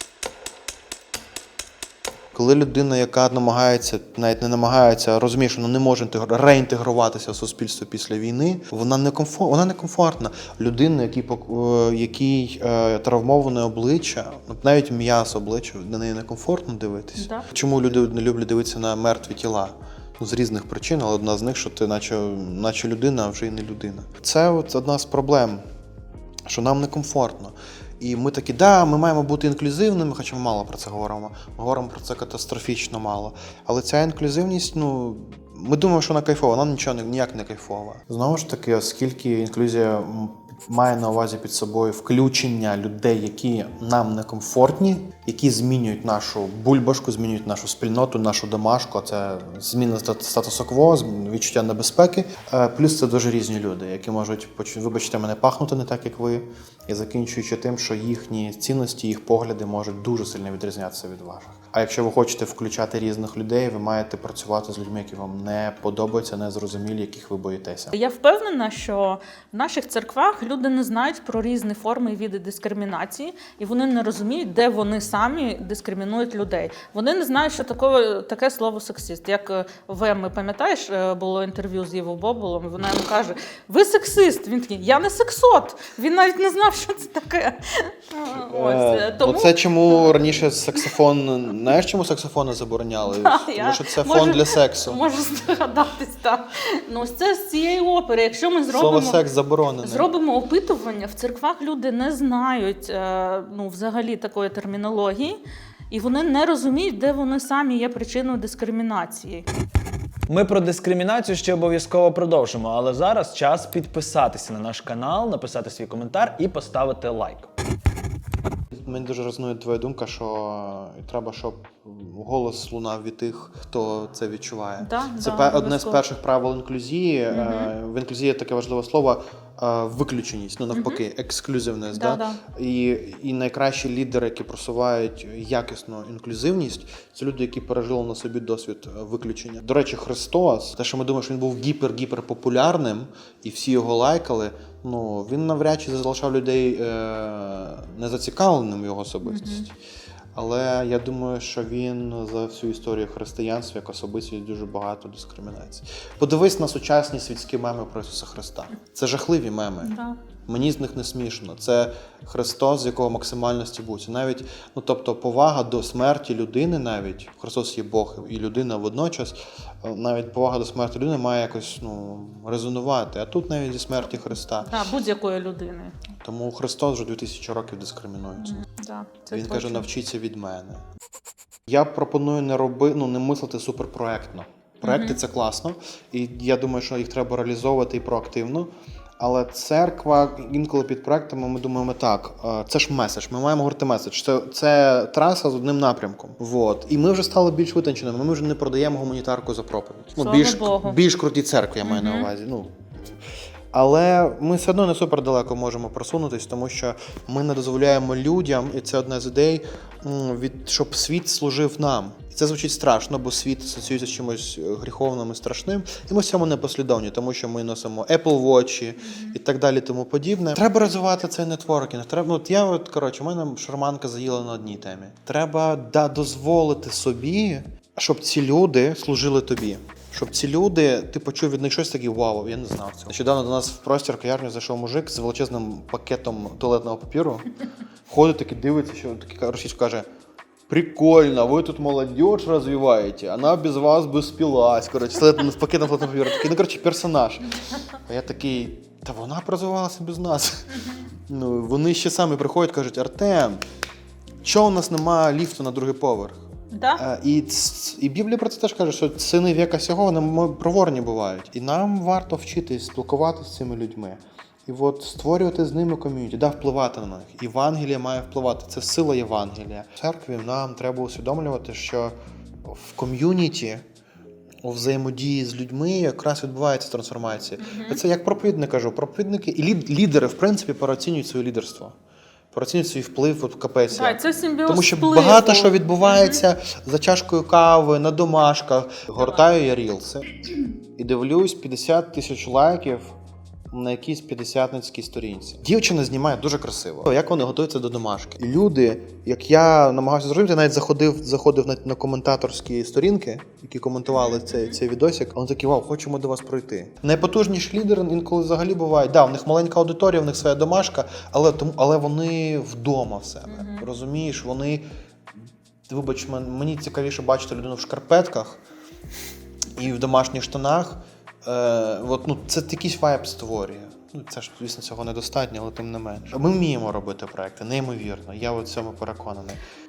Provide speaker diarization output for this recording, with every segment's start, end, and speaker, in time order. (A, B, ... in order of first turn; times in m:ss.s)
0:02.3-0:25.6 A
0:17.2-0:17.4 B
0:26.5-1:07.9 A
1:07.9-1:30.1 B
1:28.3-1:35.0 A
1:33.0-1:39.3 B
1:38.7-1:40.1 A
1:39.8-1:45.4 B
1:45.9-1:49.5 B
1:50.3-1:57.5 C
1:58.7-2:29.7 A
2:04.8-2:06.0 B
2:07.3-2:07.7 B
2:10.7-2:11.0 B
2:11.9-2:12.4 B
2:29.3-2:29.6 B
2:30.4-2:39.9 A
2:39.8-2:40.2 B
2:40.5-2:54.9 A
2:54.6-2:56.0 B
2:56.2-2:58.6 A
2:58.4-2:59.9 B
2:59.3-3:00.8 A
3:01.7-3:23.2 A
3:04.8-3:05.2 B
3:20.2-3:21.0 B
3:21.9-3:22.3 B
3:23.7-3:57.5 A
3:39.0-3:39.4 B
3:58.1-4:00.1 A
4:00.7-4:13.6 A
4:14.4-4:16.4 A
4:16.7-4:17.0 B
4:17.0-4:33.8 A
4:34.6-4:42.0 A
4:37.6-4:38.0 B
4:42.5-4:50.3 A
4:43.9-4:46.4 B
4:51.0-4:53.2 A
4:53.7-5:14.9 A
5:04.1-5:04.7 B
5:13.5-5:13.8 B
5:15.9-5:18.6 A
5:19.8-5:29.6 A